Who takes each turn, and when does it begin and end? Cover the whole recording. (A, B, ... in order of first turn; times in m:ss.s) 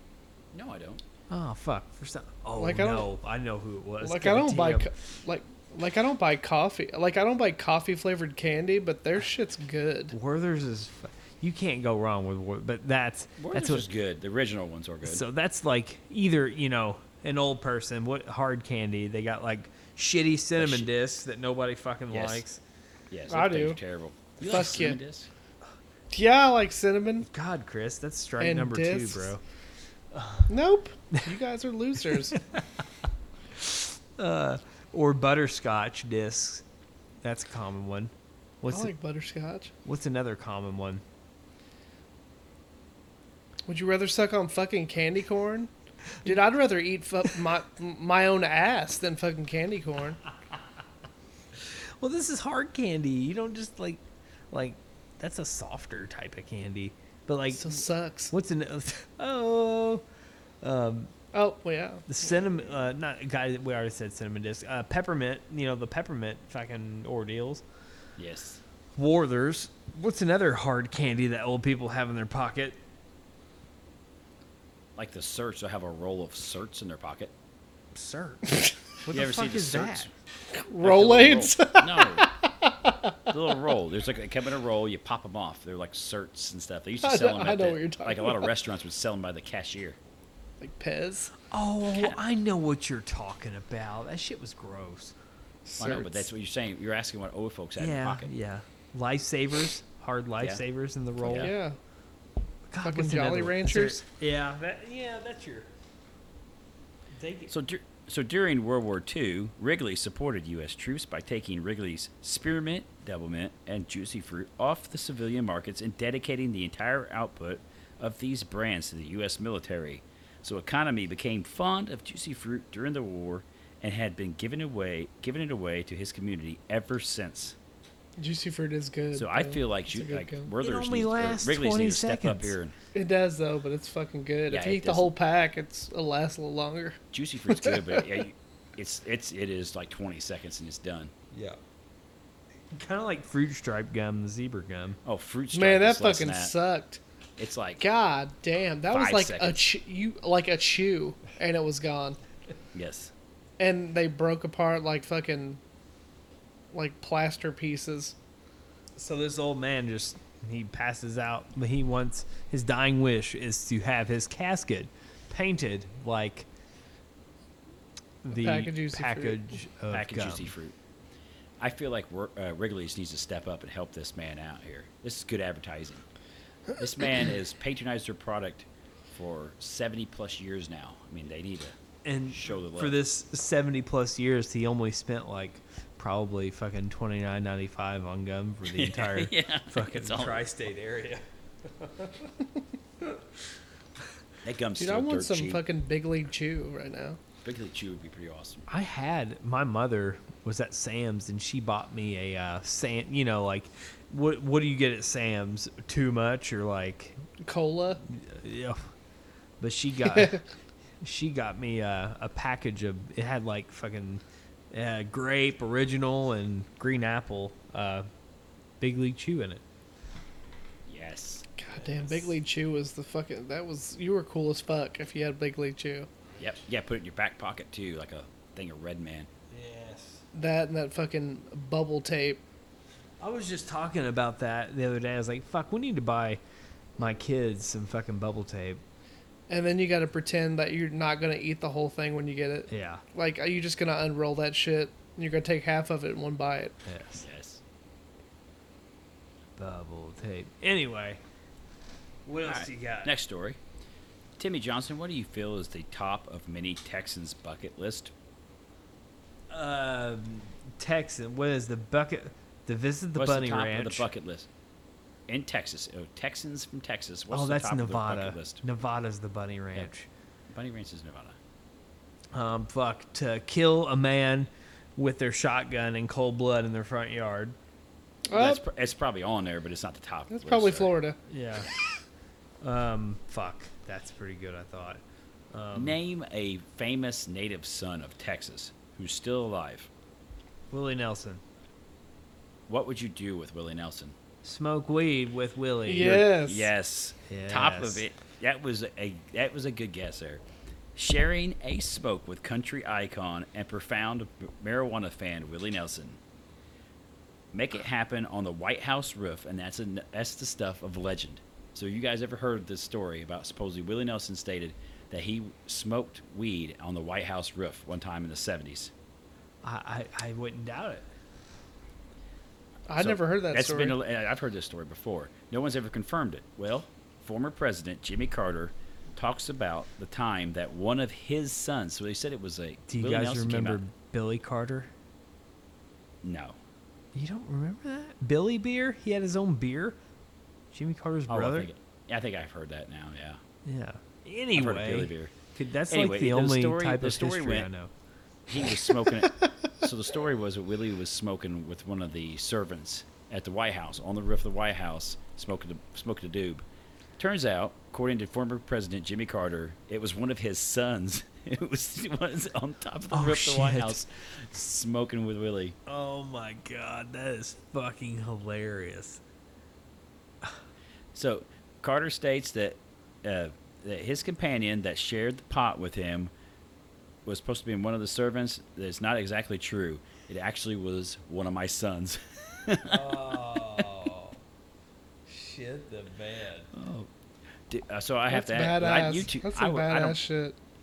0:00.5-0:01.0 A
0:01.3-0:04.9 B
0:02.6-0:03.1 C
0:04.0-0:10.1 C
0:10.1-0:13.9 B
0:13.4-0:15.2 A
0:15.0-0:22.6 B
0:20.6-0:20.9 A
0:22.1-0:22.4 A
0:23.1-0:25.3 A
0:23.3-0:23.8 C
0:24.5-0:25.0 C
0:26.1-0:27.3 C
0:27.2-0:29.4 B
0:28.4-0:29.3 C
0:30.1-0:30.5 B
0:30.5-0:32.4 C
0:32.3-0:32.8 B
0:33.6-0:36.6 B
0:37.2-0:38.9 B
0:38.7-0:39.7 C
0:39.8-0:41.0 B
0:43.7-0:45.7 C
0:46.2-0:50.2 C
0:51.6-0:54.0 B
0:54.5-1:00.0 B
0:57.5-0:58.3 C
1:00.6-1:01.1 B
1:01.3-1:02.2 C
1:02.1-1:07.6 B
1:08.2-1:08.6 A
1:09.0-1:12.8 B
1:15.0-1:17.3 A
1:18.0-1:20.1 B
1:18.5-1:18.7 C
1:19.1-1:20.1 A
1:20.5-1:23.3 C
1:20.8-1:22.3 A
1:23.3-1:30.0 A
1:27.0-1:28.5 C
1:30.6-1:31.3 C
1:31.4-1:35.1 B
1:35.6-1:36.3 C
1:35.8-1:38.3 A
1:37.8-1:41.5 B
1:41.2-1:41.5 A
1:41.3-1:41.8 C
1:42.7-1:45.7 B
1:42.8-1:44.0 C
1:47.1-1:47.5 B
1:47.5-2:07.6 A
2:08.2-2:10.5 C
2:09.2-2:12.8 A
2:10.6-2:12.6 B
2:12.9-2:18.2 C
2:14.5-2:15.1 A
2:17.1-2:21.1 A
2:21.3-2:21.6 B
2:22.7-2:25.0 B
2:25.0-2:26.5 A
2:25.5-2:27.0 C
2:27.4-2:27.8 A
2:27.8-2:32.2 C
2:28.9-2:29.6 A
2:32.7-2:33.1 A
2:33.6-2:35.6 C
2:36.7-2:38.2 C
2:39.0-2:46.5 B
2:48.2-2:50.5 B
2:48.3-2:49.5 C
2:49.9-2:50.8 A
2:51.6-2:56.0 A
2:56.8-3:01.8 A
3:02.0-3:12.3 B
3:02.3-3:03.0 A
3:08.7-3:10.5 A
3:14.4-3:15.6 A
3:14.8-3:17.2 C
3:17.4-3:18.7 A
3:18.7-3:27.2 B
3:27.4-3:28.0 C
3:28.1-3:28.9 B
3:29.6-3:30.4 B
3:30.1-3:30.4 C
3:31.0-3:38.1 B
3:38.8-3:39.6 B
3:40.9-3:41.5 A
3:41.6-3:46.1 C
3:41.8-3:42.3 B
3:46.4-3:49.3 A
3:49.5-3:50.2 B
3:50.3-3:52.4 C
3:53.2-3:56.4 B
3:57.0-3:58.8 B
3:59.5-4:06.8 C
4:02.7-4:03.0 B
4:06.9-4:07.2 B
4:07.2-4:07.6 A
4:09.6-4:11.2 B
4:12.3-4:13.1 B
4:12.4-4:13.6 A
4:14.4-4:18.1 A
4:19.5-4:24.1 B
4:23.2-4:24.5 A
4:25.3-4:28.6 A
4:27.3-4:30.1 B
4:30.5-4:31.4 A
4:32.3-4:37.6 B
4:38.3-4:38.6 C
4:38.3-4:40.9 A
4:40.3-4:41.2 C
4:41.3-4:41.7 B
4:42.6-4:45.0 B
4:45.5-4:46.0 B
4:45.7-4:49.9 A
4:50.7-4:51.4 B
4:52.7-4:54.2 A
4:54.4-4:56.3 B
4:55.8-4:56.7 C
4:56.0-5:00.4 A
4:57.3-4:58.0 B
5:01.0-5:06.2 A
5:07.5-5:18.9 A
5:19.6-5:21.1 B
5:22.9-5:24.0 C
5:23.0-5:33.8 A
5:32.9-5:34.9 B
5:36.2-5:36.6 A
5:37.1-5:40.0 B
5:40.7-5:41.7 B
5:41.3-5:43.4 A
5:43.6-5:47.9 B
5:44.6-5:45.3 A
5:45.9-5:47.7 A
5:48.5-5:56.6 A
5:57.2-6:05.8 A
6:03.1-6:04.0 B
6:05.9-6:09.2 B
6:11.1-6:16.3 A
6:17.2-6:23.1 A
6:22.8-6:24.4 B
6:25.3-6:26.7 B
6:26.7-6:27.1 A
6:27.7-6:30.2 A
6:28.3-6:30.6 C